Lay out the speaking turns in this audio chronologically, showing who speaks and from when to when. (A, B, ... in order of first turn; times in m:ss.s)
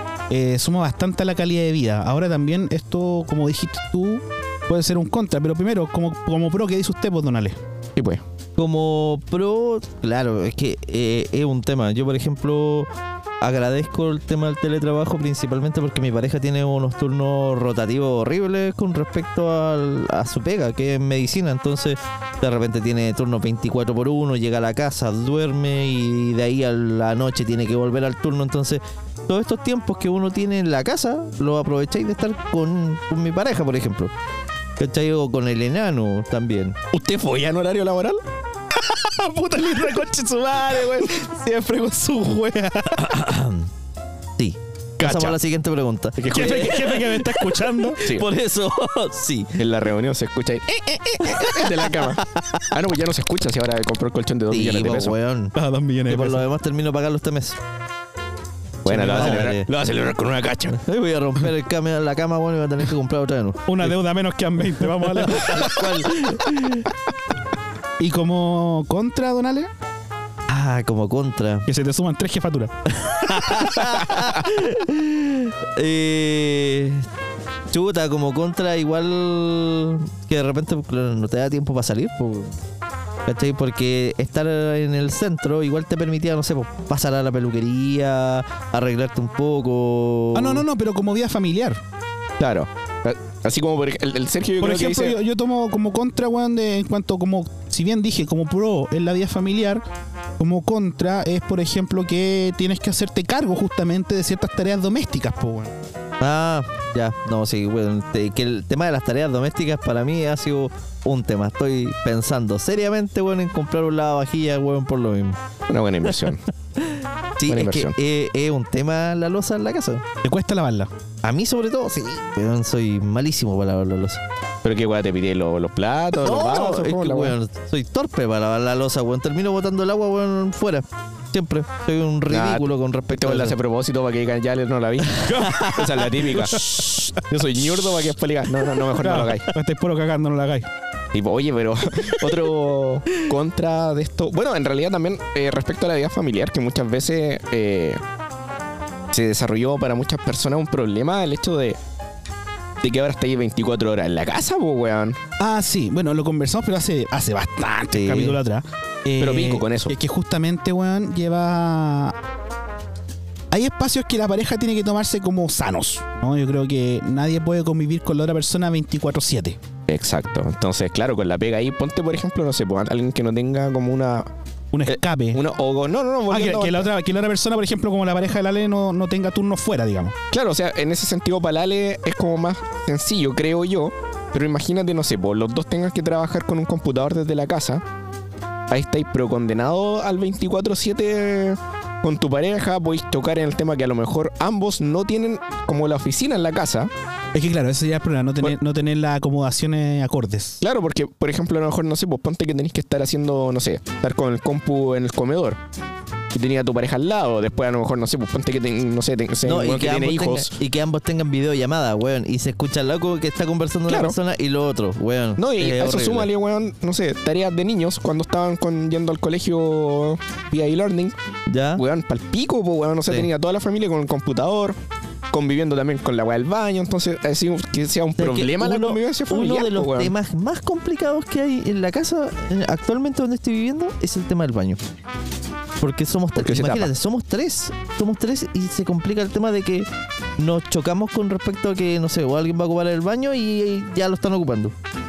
0:00.3-0:07.6 A
0:08.0-0:08.2 B
0:08.6-0:12.9 C
0:13.4-0:34.1 C
0:34.8-0:36.8 C
0:36.9-0:38.2 B
0:38.7-0:43.1 A
0:43.0-0:43.7 C
0:44.4-0:49.6 C
0:45.0-0:45.4 B
0:46.2-0:46.9 B
0:46.3-0:48.0 A
0:48.0-0:48.3 B
0:49.6-0:55.2 B
0:51.2-0:52.7 C
0:54.5-0:55.6 C
0:55.6-0:56.4 A
0:56.1-0:57.6 C
0:58.8-1:00.8 B
0:58.9-0:59.7 C
0:59.2-0:59.4 A
1:00.8-1:03.9 C
1:03.7-1:05.8 A
1:05.1-1:06.9 C
1:08.0-1:09.7 A
1:10.5-1:11.7 C
1:11.7-1:14.3 A
1:13.0-1:17.1 C
1:17.7-1:22.6 C
1:23.3-1:30.6 C
1:30.3-1:31.8 A
1:32.4-1:35.2 B
1:34.6-1:39.8 A
1:40.4-1:45.8 A
1:46.2-1:55.4 C
1:55.7-1:56.4 B
1:56.8-2:00.0 C
1:57.4-1:58.0 B
2:00.2-2:00.9 A
2:01.2-2:04.2 C
2:04.6-2:07.4 B
2:06.2-2:13.6 C
2:12.3-2:19.5 B
2:15.3-2:16.2 C
2:15.3-2:15.8 A
2:16.6-2:17.1 A
2:19.0-2:20.7 A
2:21.1-2:28.0 B
2:29.1-2:31.8 B
2:32.8-2:35.2 B
2:35.4-2:42.2 A
2:37.9-2:38.4 C
2:39.2-2:39.9 B
2:43.5-2:49.6 A
2:49.9-2:54.3 B
2:54.7-2:55.4 A
2:54.9-2:56.9 B
2:56.3-3:00.2 A
3:00.3-3:07.8 B
3:08.7-3:16.9 B
3:17.3-3:20.6 A
3:20.6-3:25.6 B
3:26.3-3:30.6 B
3:29.5-3:36.3 C
3:33.9-3:34.2 B
3:35.4-3:41.2 B
3:41.5-3:41.8 C
3:41.8-3:44.8 B
3:45.3-3:50.1 B
3:48.2-3:54.8 C
3:55.8-3:59.9 C
3:56.4-3:56.9 B
4:00.4-4:04.7 C